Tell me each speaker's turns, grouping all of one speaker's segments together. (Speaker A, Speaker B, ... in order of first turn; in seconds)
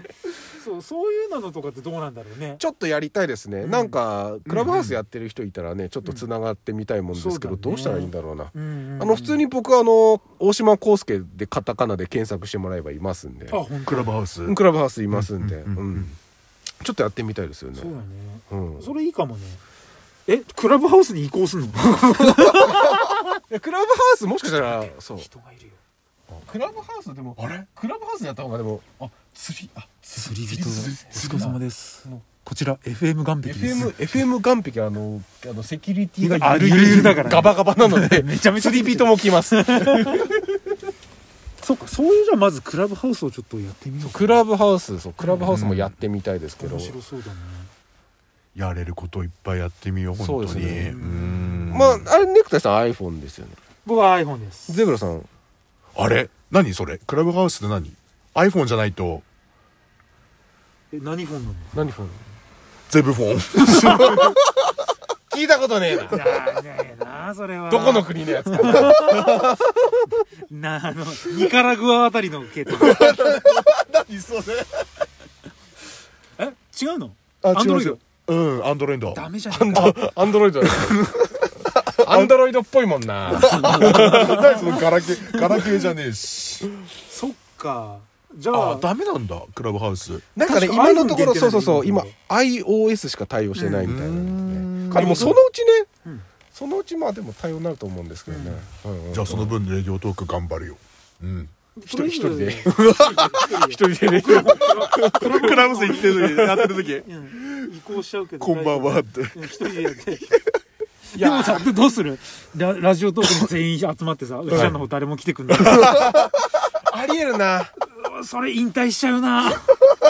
Speaker A: 0.6-2.6, 3.6-4.0, 7.1-9.4, 13.5-14.1, 17.8-19.6, 20.3-23.2, 24.5-25.8, 30.2-34.0, 36.2-40.4, 41.6-44.4, 45.2-45.6, 46.6-47.7, 50.8-51.8, 53.9-54.8, 60.9-61.7, 63.6-64.3, 66.1-69.5, 70.5-73.1, 76.4-78.0, 79.1-80.0, 83.4-85.7, 87.1-88.9, 90.4-92.1, 93.6-93.9, 94.9-95.4, 98.3-98.7, 101.8-106.5, 107.0-110.3, 111.1-116.0, 117.9-119.8
Speaker B: 2.6-13.6, 14.5-16.2, 16.8-17.9, 18.5-18.9, 22.5-22.9, 23.5-25.3, 26.3-32.3, 33.4-40.4, 44.0-47.0, 50.2-51.0, 51.7-53.6, 54.7-55.3, 61.8-62.2, 65.3-66.2, 67.7-69.9, 79.5-84.8, 90.3-95.9, 96.5-99.6, 101.9-106.8, 111.2-111.7, 115.6-116.3, 116.9-117.7
Speaker C: 4.5-5.0, 13.9-14.6, 15.1-16.1, 45.5-45.9, 48.5-52.0, 56.0-59.2, 62.9-64.4, 72.8-74.9, 77.4-79.2, 80.6-82.3, 83.3-86.7, 88.5-90.3, 93.9-95.4, 99.1-101.5, 105.2-107.7, 108.4-109.8, 114.5-114.8, 115.5-116.1